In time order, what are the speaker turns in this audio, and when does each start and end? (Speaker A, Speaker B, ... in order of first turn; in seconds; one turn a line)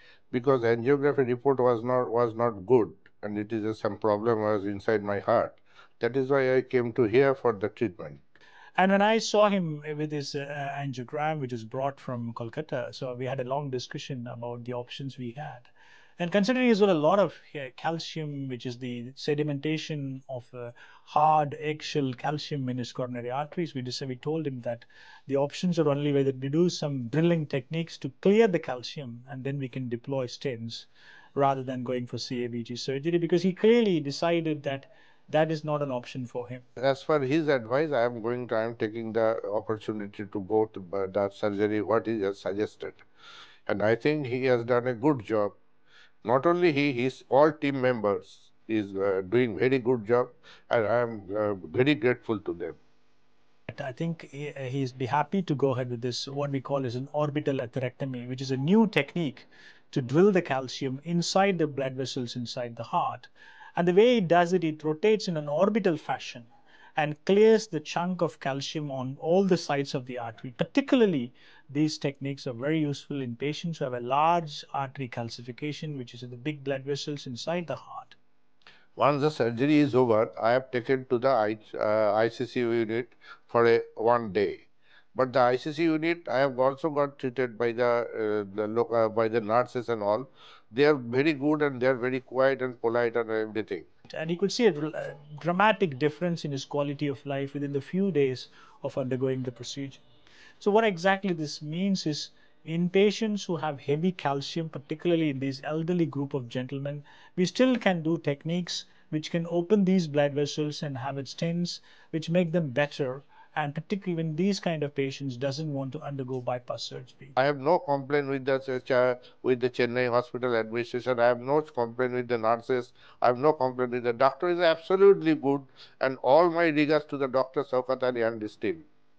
Speaker A: 0.3-8.2
Speaker B: 8.8-36.6
Speaker A: 36.8-43.0
Speaker A: 43.7-45.5
Speaker A: 46.2-52.8
Speaker B: 53.7-78.2
Speaker A: 79.0-93.9
Speaker B: 94.1-100.0
Speaker B: 100.6-117.4
Speaker A: 117.4-128.9